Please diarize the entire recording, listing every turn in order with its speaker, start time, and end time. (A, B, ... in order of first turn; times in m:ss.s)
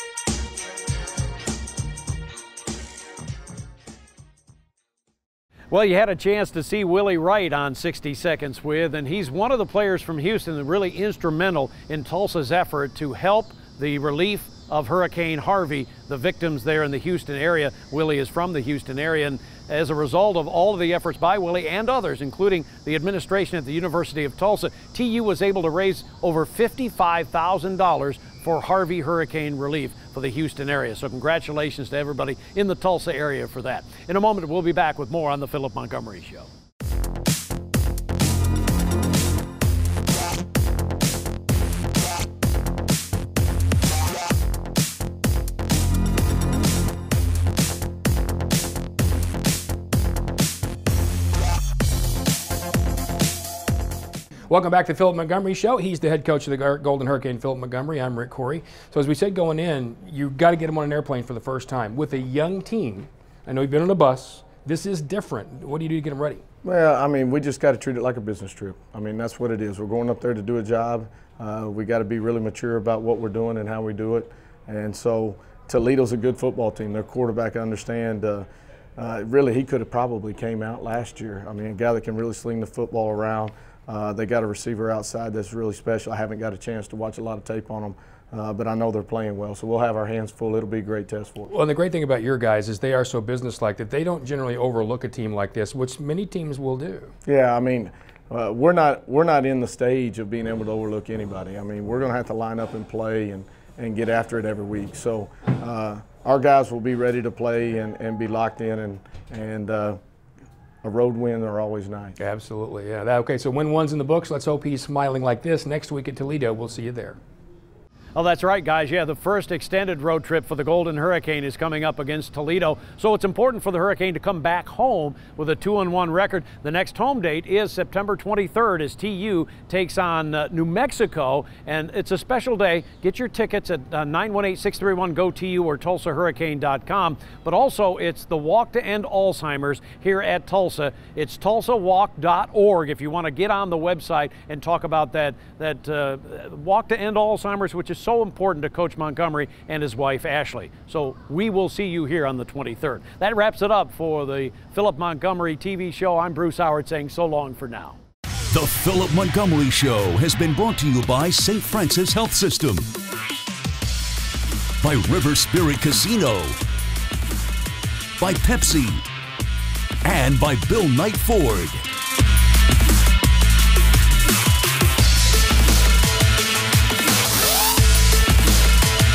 0:05.7-0:36.5 A
0:54.5-1:06.4 B
1:06.6-1:31.5 C
1:31.4-1:37.1 B
1:37.2-1:50.0 C
1:50.8-1:52.2 C
1:52.2-1:57.2 B
1:58.1-2:38.0 A
2:38.5-2:42.9 D
2:44.8-2:46.6 D
2:48.2-2:49.0 D
2:50.0-2:51.8 D